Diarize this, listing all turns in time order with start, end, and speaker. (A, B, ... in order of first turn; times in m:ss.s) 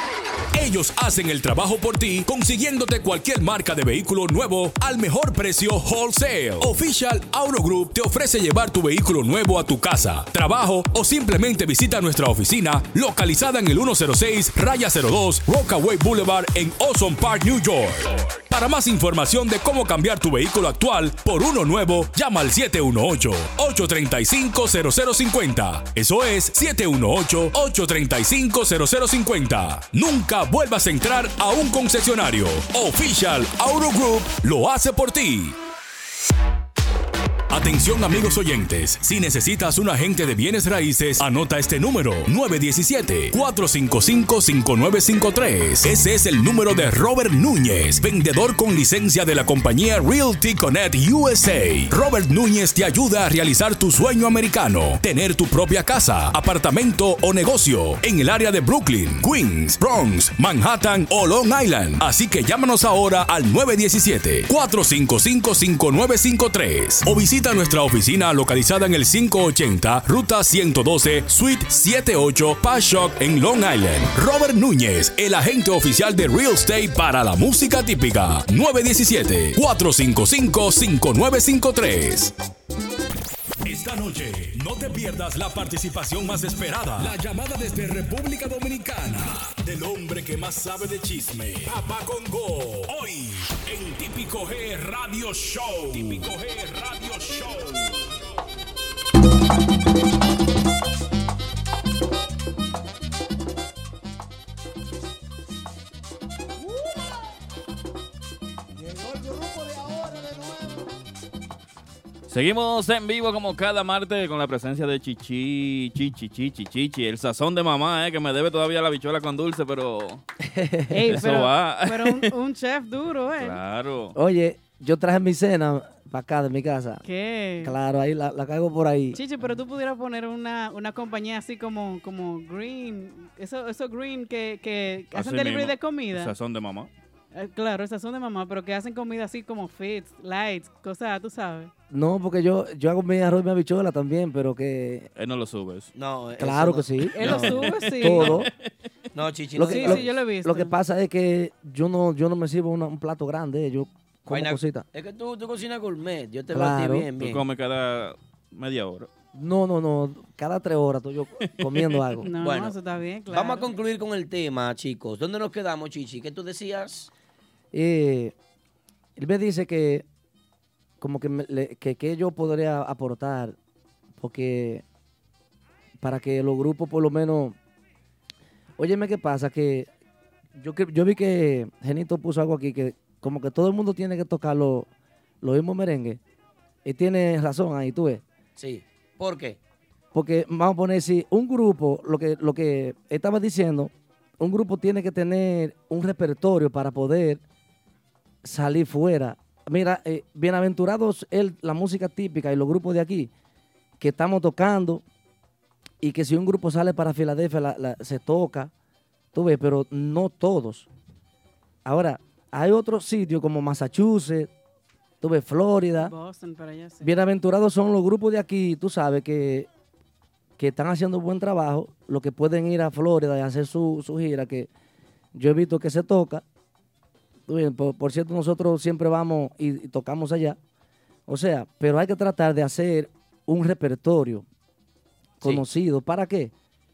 0:00.4-0:35.6 A
0:37.5-1:22.3 A
1:23.6-1:38.1 A
1:52.3-2:00.2 B
2:00.4-2:01.2 C
2:00.9-2:03.6 D
2:01.1-2:02.3 B
2:03.4-2:04.2 B
2:04.1-2:07.0 C
2:07.0-2:07.8 D
2:07.6-2:09.2 C
2:09.1-2:16.3 D
2:15.1-2:16.9 B
2:17.3-2:21.7 D
2:21.9-2:25.1 C
2:25.2-2:25.9 B
2:25.9-2:27.7 E
2:26.4-2:28.5 C
2:27.1-2:28.4 D
2:27.6-2:28.5 B
2:29.1-2:30.1 E
2:29.5-2:34.8 C
2:29.6-2:30.7 D
2:34.3-2:37.4 E
2:36.5-2:37.1 C
2:37.2-2:39.1 B
2:39.3-2:42.3 C
2:42.2-2:43.7 D
2:42.4-2:42.8 E
2:43.3-2:47.1 E
2:47.7-2:48.3 C
2:49.2-2:50.0 C
2:51.0-2:53.6 C
2:54.2-2:54.8 C
2:56.0-2:57.6 C
2:58.8-2:59.9 C
3:00.6-3:04.9 C
3:05.4-3:06.2 C
3:06.8-3:08.2 C
3:08.6-3:09.6 E
3:10.1-3:17.4 C
3:18.4-3:23.3 C
3:24.0-3:25.0 C
3:26.0-3:28.7 C
3:29.3-3:30.9 C
3:31.8-3:34.5 C
3:35.2-3:36.1 C
3:36.0-3:37.1 D
3:37.0-3:39.7 C
3:40.6-3:44.7 C
3:45.3-3:46.4 C
3:47.5-3:50.6 C
3:51.3-3:54.4 C
3:55.4-3:56.5 C